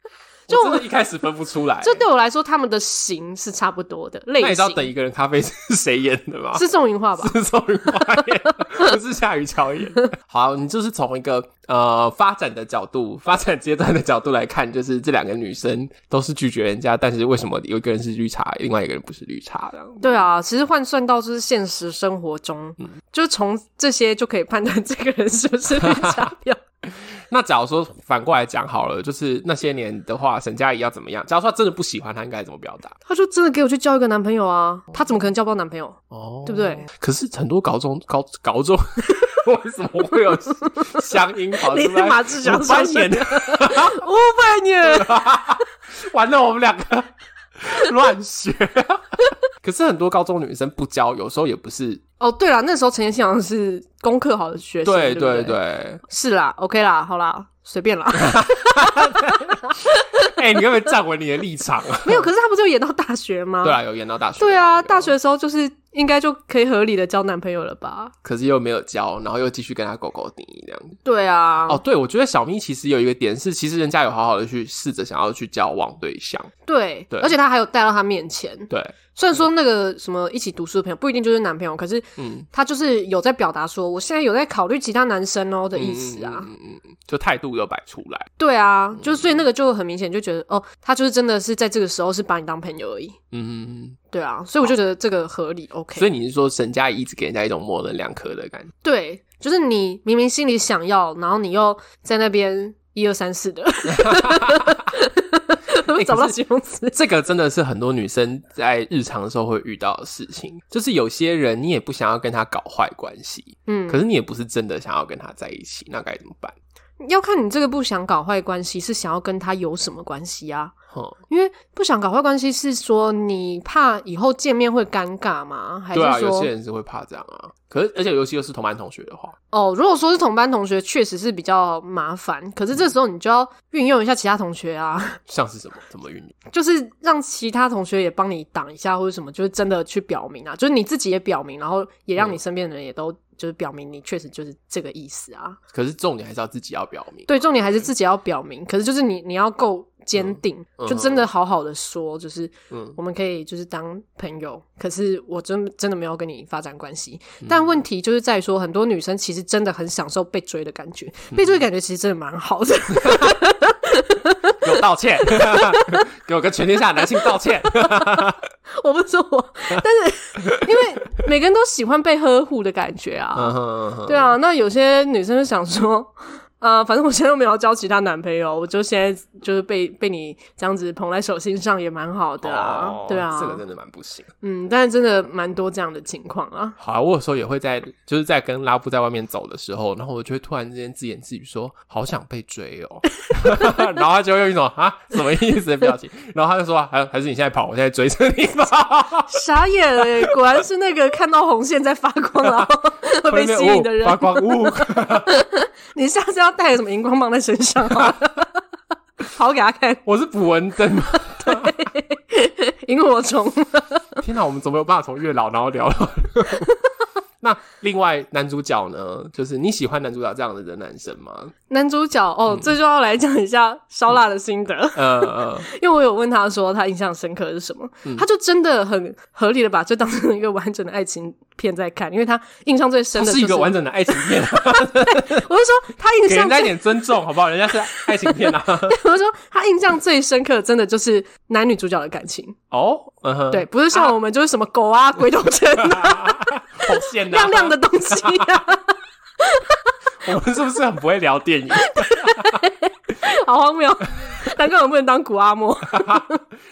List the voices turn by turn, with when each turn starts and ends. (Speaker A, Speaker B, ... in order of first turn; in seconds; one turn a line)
Speaker A: 0.5-2.0
Speaker B: 0.5-0.8
Speaker B: 1.8-4.9
Speaker A: 4.4-6.7
Speaker B: 6.5-7.4
Speaker A: 7.2-20.2
Speaker B: 20.0-26.6
Speaker A: 25.8-26.3
Speaker A: 26.9-33.0
Speaker B: 33.1-36.9
Speaker A: 36.1-44.0
Speaker B: 41.6-45.2
Speaker A: 44.8-52.0
Speaker B: 52.2-60.4
Speaker A: 54.9-56.0
Speaker A: 58.2-62.3
Speaker B: 62.0-63.8
Speaker A: 63.6-65.1
Speaker B: 64.4-68.1
Speaker A: 68.2-71.0
Speaker B: 71.0-71.8
Speaker A: 71.7-76.5
Speaker B: 76.7-86.5
Speaker A: 78.7-79.0
Speaker A: 82.2-82.5
Speaker A: 85.8-88.3
Speaker B: 88.4-93.2
Speaker A: 89.0-89.4
Speaker A: 93.3-94.0
Speaker B: 94.1-96.1
Speaker A: 96.0-98.7
Speaker B: 98.8-107.0
Speaker A: 103.9-104.8
Speaker A: 105.9-106.4
Speaker A: 106.9-116.5
Speaker B: 113.7-114.0
Speaker B: 117.0-120.8
Speaker B: 121.3-126.5
Speaker A: 125.9-129.3
Speaker B: 129.5-135.2
Speaker A: 135.3-136.4
Speaker B: 136.5-145.6
Speaker A: 145.7-147.4
Speaker B: 147.3-166.1
Speaker A: 150.2-151.3
Speaker A: 152.7-153.0
Speaker A: 161.3-161.6
Speaker A: 163.0-163.4
Speaker A: 164.6-168.4
Speaker B: 167.2-183.6
Speaker A: 170.4-170.9
Speaker A: 173.3-174.4
Speaker A: 182.4-184.3
Speaker B: 184.4-186.8
Speaker A: 186.8-199.4
Speaker B: 193.2-193.9
Speaker B: 199.3-208.6
Speaker A: 202.4-202.7
Speaker A: 203.2-205.4
Speaker B: 209.2-210.0
Speaker A: 210.1-211.8
Speaker B: 211.3-214.2
Speaker A: 214.2-216.7
Speaker A: 217.4-221.5
Speaker B: 221.7-237.1
Speaker A: 225.0-225.7
Speaker A: 233.2-235.5
Speaker A: 236.3-239.0
Speaker B: 237.9-242.6
Speaker A: 242.7-244.1
Speaker B: 243.5-249.9
Speaker A: 245.8-248.6
Speaker A: 250.2-252.6
Speaker B: 251.8-256.4
Speaker A: 255.9-256.3